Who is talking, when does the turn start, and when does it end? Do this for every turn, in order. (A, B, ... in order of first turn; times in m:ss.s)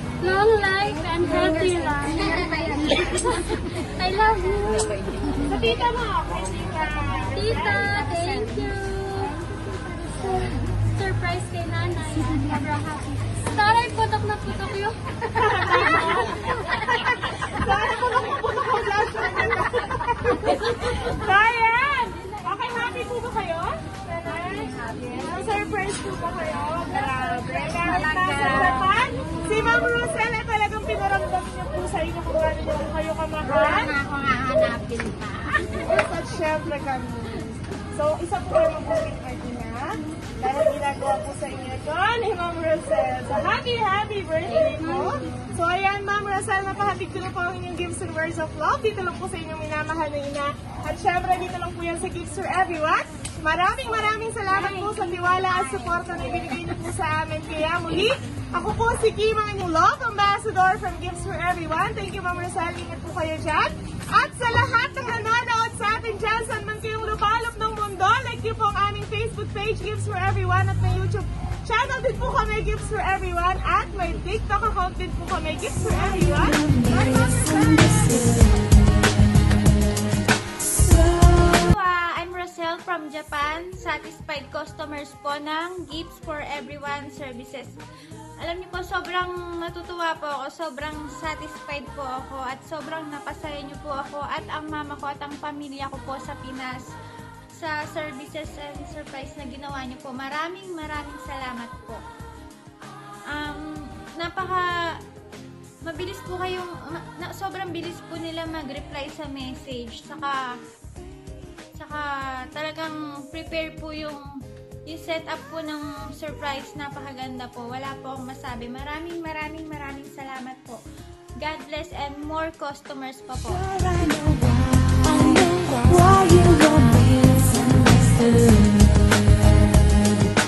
0:00.2-0:05.2 A
0:00.3-0:03.6 B
0:05.3-0:08.1 C
0:07.3-0:16.6 A
0:15.4-0:33.9 C
0:20.4-0:21.2 B
0:24.2-0:25.7 B
0:26.9-0:29.8 B
0:33.4-0:36.0 B
0:35.7-1:17.2 C
0:44.5-0:45.4 A
0:54.5-0:56.6 B
1:16.0-1:18.8 D
1:20.8-1:21.7 D
1:21.7-1:27.8 B
1:28.4-1:36.9 B
1:37.5-1:42.0 B
1:43.3-1:45.0 B
1:45.8-1:50.6 B
1:51.7-2:00.8 B
2:01.4-2:03.6 B
2:03.3-2:10.1 D